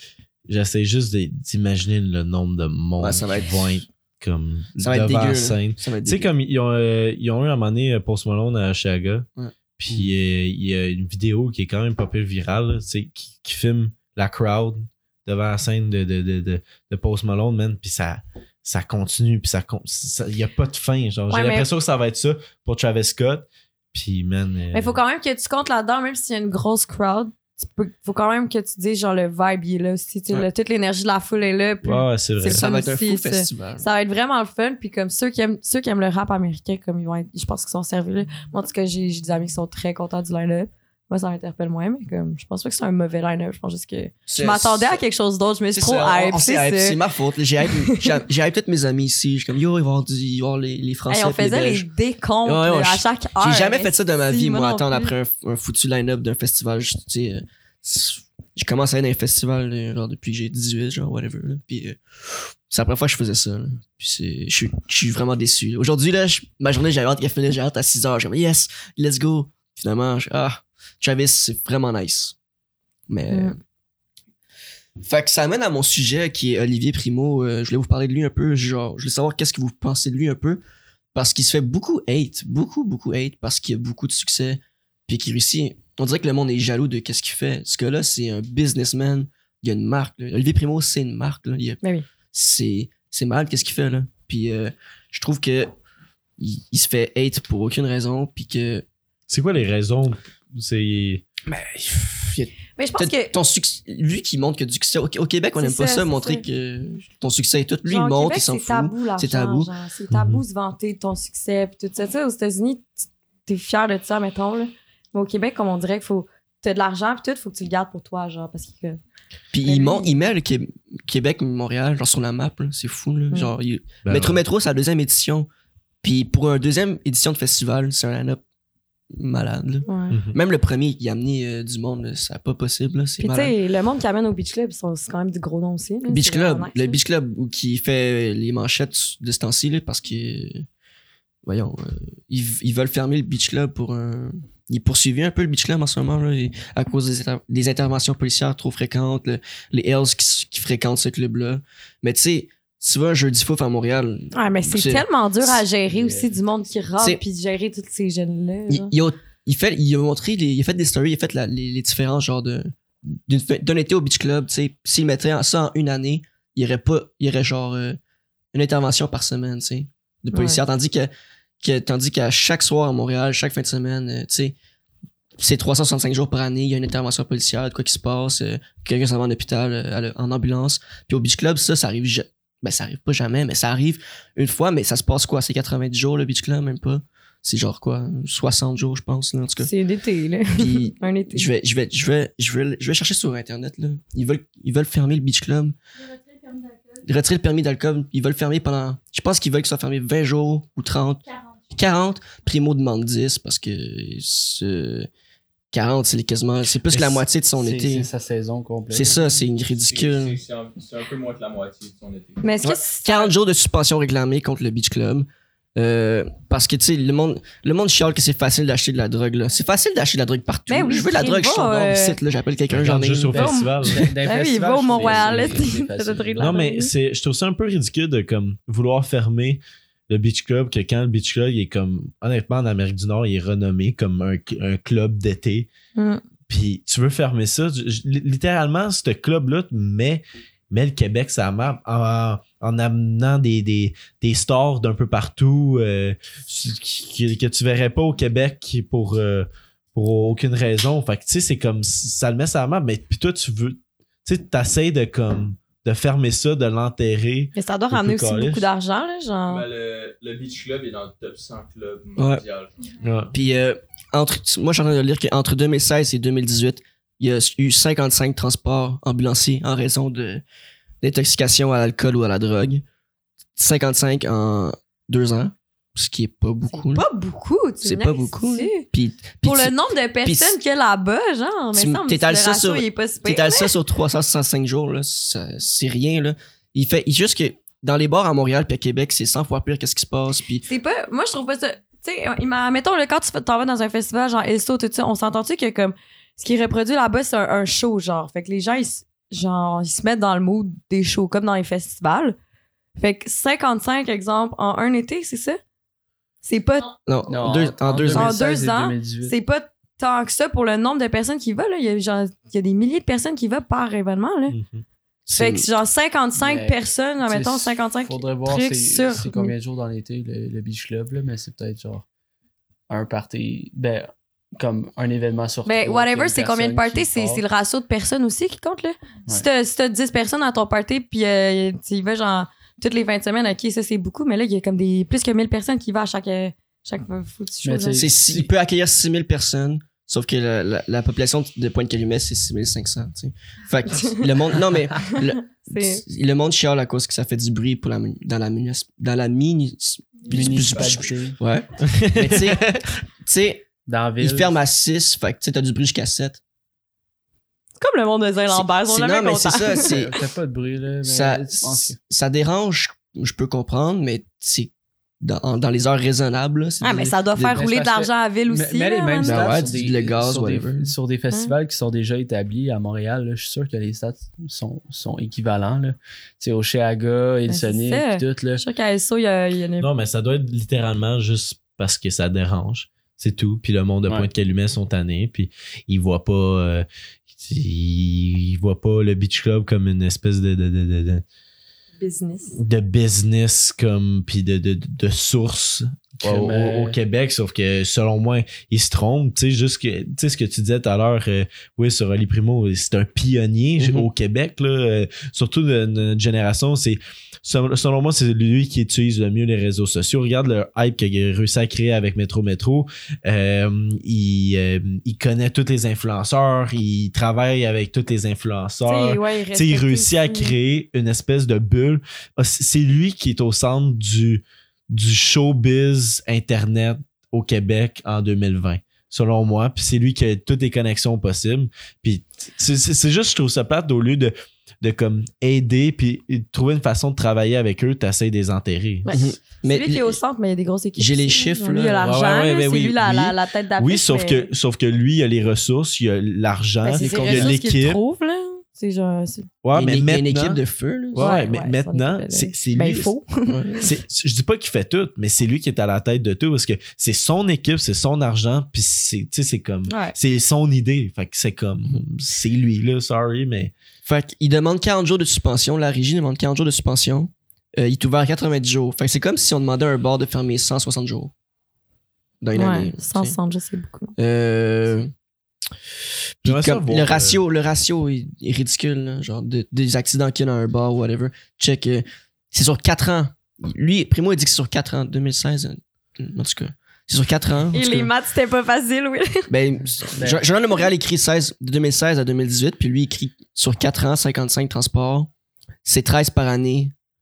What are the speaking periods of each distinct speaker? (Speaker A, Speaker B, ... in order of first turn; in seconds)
Speaker A: 0.5-9.3, 9.8-25.0, 31.8-32.6, 99.3-101.2, 110.1-110.4, 124.0-124.4, 130.1-130.4, 206.9-207.2, 222.7-224.1, 226.4-235.7, 236.5-258.7, 263.0-263.3, 314.5-314.8, 351.8-352.8, 379.8-391.2, 392.5-439.1, 442.0-448.0, 449.6-450.6, 451.1-453.1, 453.8-463.7, 476.4-477.4
Speaker B: 3.0-3.8, 4.8-6.3, 32.5-33.9, 44.3-45.0, 45.7-51.9, 52.5-62.0, 62.7-72.3, 73.1-73.6, 75.0-80.6, 81.1-95.7, 96.4-98.8, 101.5-109.7, 119.5-125.5, 126.0-128.4, 129.1-133.6, 136.1-140.7, 141.4-155.6, 158.7-168.0, 168.5-174.6, 175.4-189.7, 190.6-195.8, 197.0-205.1, 205.7-208.1, 208.9-210.4, 212.6-223.4, 225.0-225.5, 263.3-270.4, 271.0-272.8, 273.6-277.1, 277.8-279.7, 280.2-280.6, 281.8-290.7, 307.1-308.4, 315.3-315.7, 338.0-353.7, 354.2-356.4, 358.5-360.2, 361.1-367.6, 369.2-370.9, 439.1-440.2, 441.0-442.1, 447.0-447.6, 449.7-451.4, 453.5-453.8, 464.1-471.3, 472.4-473.4, 474.2-475.1, 476.4-488.1, 489.5-495.3, 495.9-496.9
Speaker C: 21.3-21.7, 24.7-47.0, 47.7-48.1, 51.1-55.1, 73.3-73.6, 102.8-103.3, 105.6-106.4, 107.9-112.9, 113.5-119.0, 119.7-120.2, 129.9-130.2, 133.2-137.0, 154.3-158.9, 170.3-170.6, 189.6-191.5, 212.4-213.3, 220.7-222.2, 223.3-226.9, 236.0-236.2, 257.6-259.7, 276.7-278.9, 279.4-283.7, 290.7-302.4, 303.0-305.6, 306.4-306.9, 308.1-314.6, 315.4-319.5, 325.6-338.1, 343.9-344.2, 345.0-346.0, 357.8-359.9, 366.8-369.6, 377.5-379.9, 392.0-392.6, 418.9-420.6, 439.1-444.5, 446.8-449.5, 451.2-453.9, 459.9-460.2, 472.6-474.1, 487.7-489.5
Speaker D: 155.9-156.4, 207.6-209.3, 223.3-226.6, 307.3-309.4, 316.4-322.1, 322.9-327.4, 337.6-338.5, 350.3-351.4, 353.9-354.5, 359.7-362.0, 367.5-378.6, 396.2-397.0, 490.1-490.5
Speaker E: 209.7-212.5, 259.5-262.7, 350.5-351.0